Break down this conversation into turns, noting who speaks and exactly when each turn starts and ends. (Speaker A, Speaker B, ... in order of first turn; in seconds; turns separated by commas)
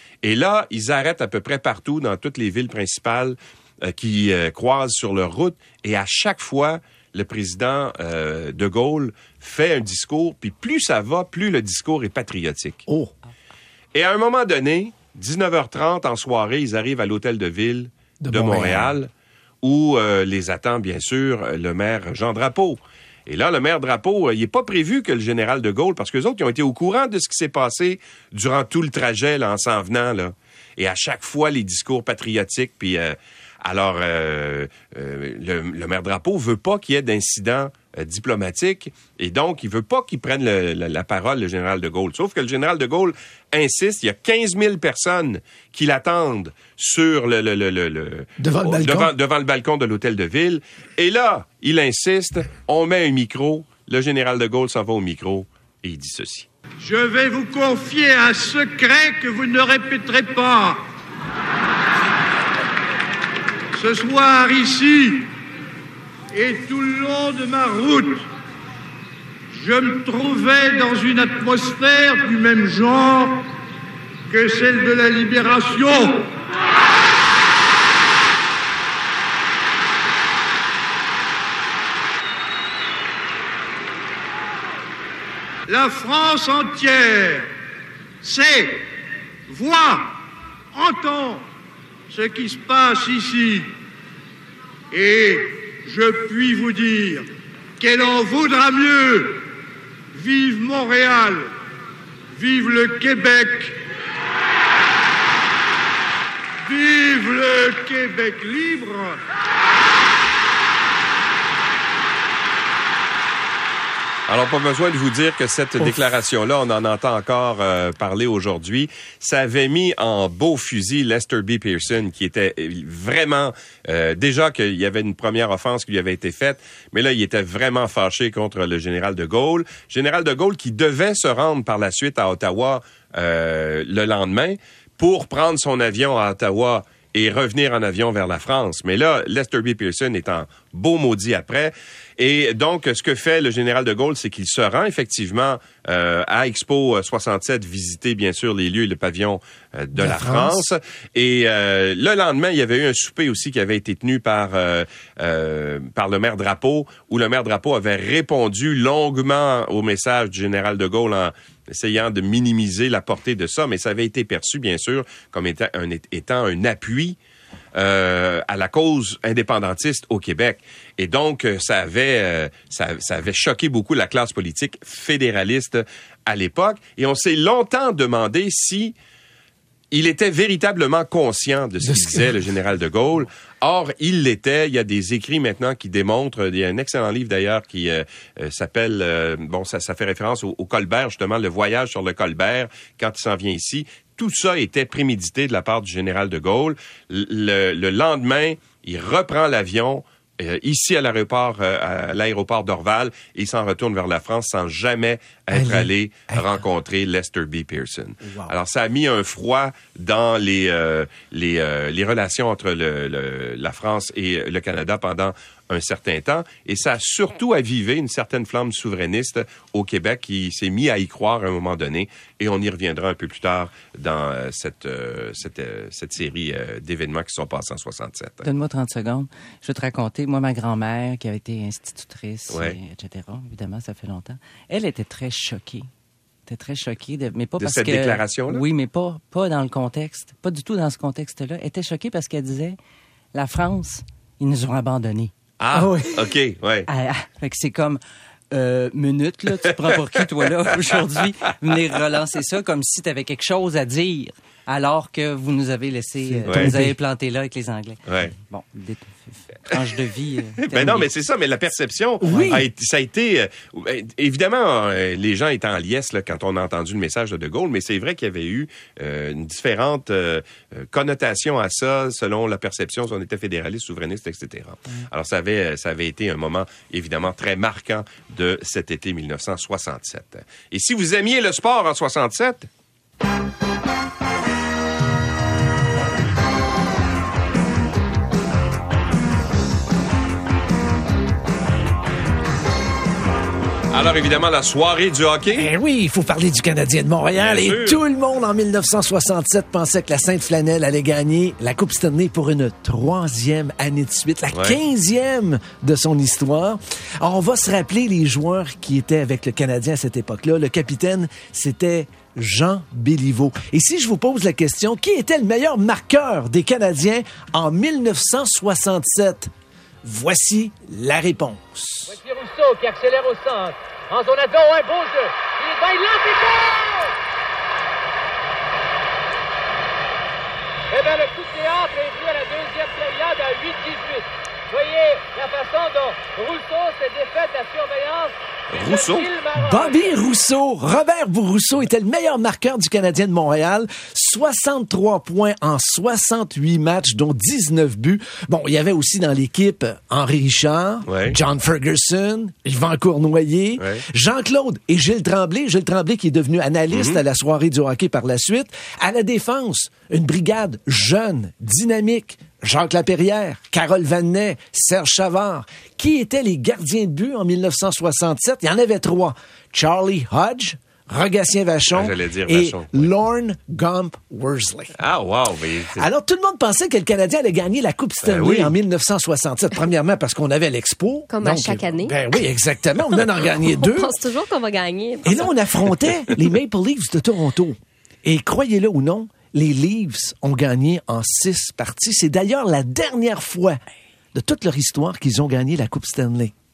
Speaker A: 0.2-12.8, Speaker B: 12.9-13.1, Speaker A: 13.9-19.1, Speaker B: 18.2-18.9, Speaker A: 19.6-56.5, Speaker B: 48.4-49.1, Speaker C: 56.8-60.8, Speaker C: 63.7-65.3, Speaker C: 66.3-68.2, Speaker C: 69.5-73.4, Speaker C: 74.3-76.3, Speaker C: 85.7-87.5, Speaker C: 88.2-88.8, Speaker C: 89.5-90.2, Speaker C: 90.7-91.4, Speaker C: 92.1-93.7, Speaker C: 94.9-97.2, Speaker C: 97.8-99.5, Speaker C: 100.1-101.5, Speaker C: 102.3-103.8, Speaker C: 106.7-109.2, Speaker A: 114.3-167.2, Speaker B: 149.9-150.6, Speaker A: 167.7-178.9, Speaker A: 179.9-228.4, Speaker B: 181.8-182.3, Speaker B: 205.5-206.6, Speaker B: 208.2-208.5, Speaker D: 228.4-235.9, Speaker A: 232.5-232.8, Speaker D: 236.5-242.8, Speaker A: 237.6-238.6, Speaker D: 243.3-246.1, Speaker A: 245.6-246.9, Speaker D: 246.9-248.0, Speaker D: 248.5-261.1, Speaker B: 256.2-256.9, Speaker A: 256.5-256.7, Speaker A: 258.1-258.3, Speaker A: 260.6-282.7, Speaker B: 262.2-262.6, Speaker A: 293.9-295.7, Speaker B: 295.5-319.5, Speaker A: 297.4-298.0, Speaker A: 304.5-304.8, Speaker B: 320.0-322.1, Speaker E: 322.1-327.1, Speaker E: 330.9-340.1, Speaker A: 338.7-339.3, Speaker B: 339.5-374.9, Speaker A: 351.1-351.4, Speaker A: 356.9-357.2, Speaker A: 371.9-373.1, Speaker A: 375.0-376.1, Speaker B: 375.9-384.1, Speaker A: 378.2-378.7, Speaker F: 381.3-382.4, Speaker F: 383.6-385.5, Speaker B: 385.2-393.8, Speaker B: 394.3-396.5